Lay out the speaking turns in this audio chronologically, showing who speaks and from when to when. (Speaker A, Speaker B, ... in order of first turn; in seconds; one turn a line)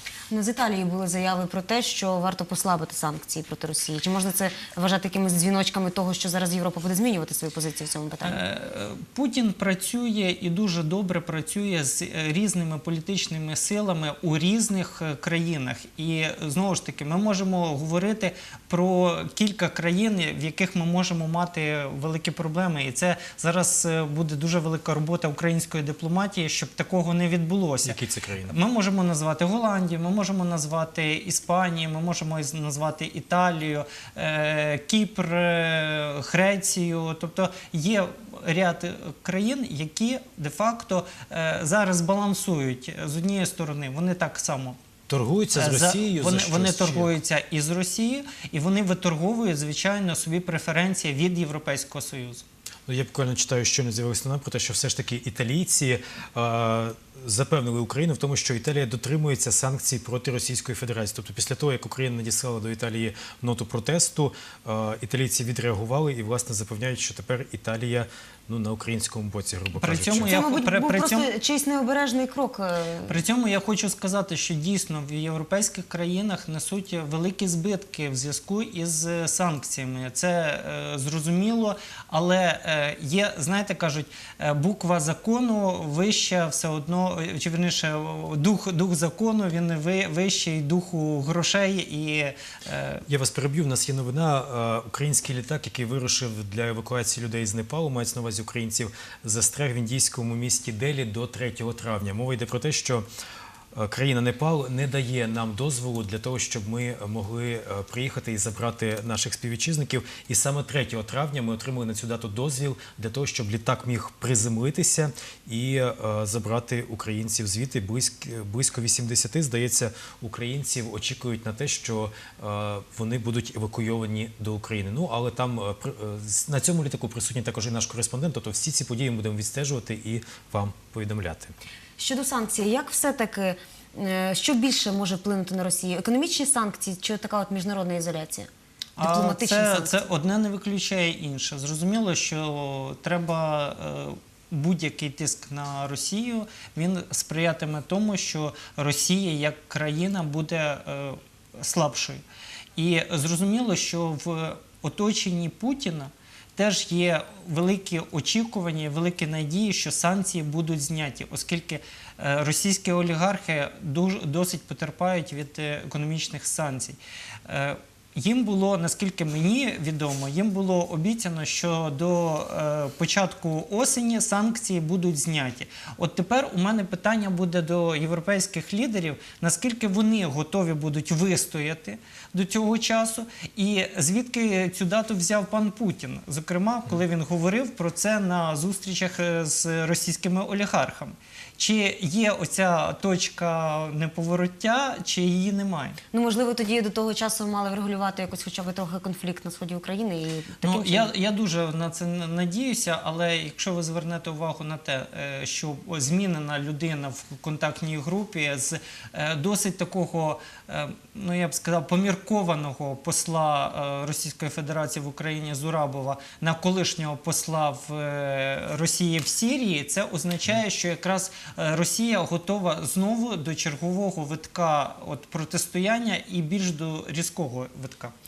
Speaker A: 0.3-8.4
Speaker B: 8.2-28.0
Speaker C: 27.8-28.5
Speaker B: 28.5-44.8
Speaker C: 45.1-47.1
Speaker B: 45.5-52.4
Speaker C: 52.9-70.3
Speaker B: 69.8-71.3
Speaker A: 70.2-73.2
Speaker B: 73.1-93.0
Speaker C: 93.1-103.1
Speaker C: 103.7-131.6
Speaker A: 132.0-140.0
Speaker B: 139.0-152.2
Speaker B: 152.8-196.0
Speaker A: 196.1-201.1
Speaker B: 200.6-228.1